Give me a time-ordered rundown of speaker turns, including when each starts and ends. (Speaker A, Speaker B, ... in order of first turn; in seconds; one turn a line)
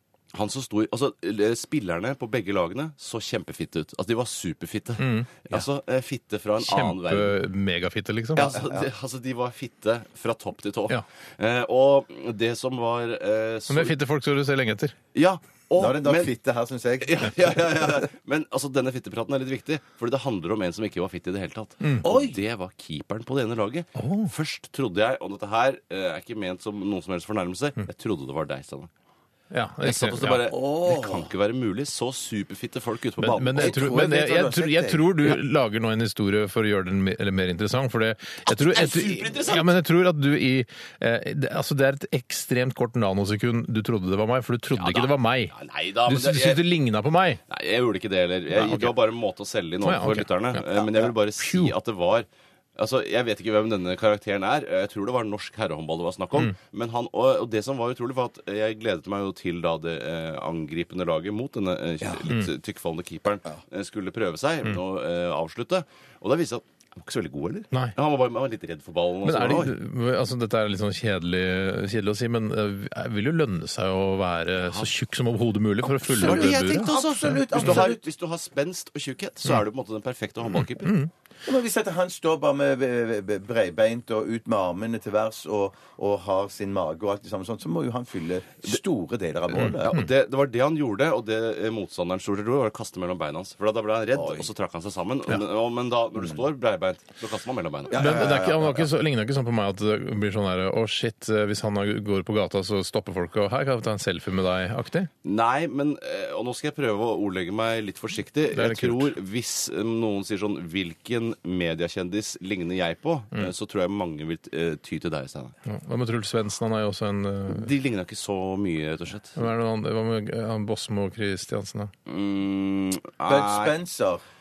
Speaker A: 0.3-7.4
Speaker B: 5.0-5.6
Speaker B: 6.6-8.5
Speaker A: 8.4-14.0
Speaker C: 8.4-8.9
Speaker B: 13.7-14.9
Speaker A: 15.2-16.3
Speaker C: 15.8-18.1
Speaker A: 17.0-28.9
Speaker C: 22.0-22.4
Speaker B: 24.0-24.3
Speaker B: 29.5-30.5
Speaker A: 29.8-34.0
Speaker C: 30.5-31.3
Speaker B: 33.2-45.5
Speaker C: 33.6-35.4
Speaker A: 38.5-39.7
Speaker A: 44.7-46.7
Speaker B: 46.1-47.4
Speaker A: 47.5-69.8
Speaker B: 48.5-48.9
Speaker B: 49.8-50.6
Speaker C: 50.8-51.1
Speaker B: 51.4-51.7
Speaker B: 69.2-77.8
Speaker A: 74.6-74.9
Speaker A: 76.0-80.9
Speaker C: 76.1-78.0
Speaker B: 80.8-81.1
Speaker C: 81.5-90.0
Speaker A: 89.5-98.3
Speaker B: 89.5-90.1
Speaker C: 94.1-94.5
Speaker C: 97.9-98.9
Speaker B: 98.0-105.1
Speaker A: 105.2-115.5
Speaker B: 108.5-109.1
Speaker B: 115.7-117.7
Speaker A: 117.5-119.4
Speaker B: 119.4-121.9
Speaker A: 122.1-123.8
Speaker C: 123.2-124.2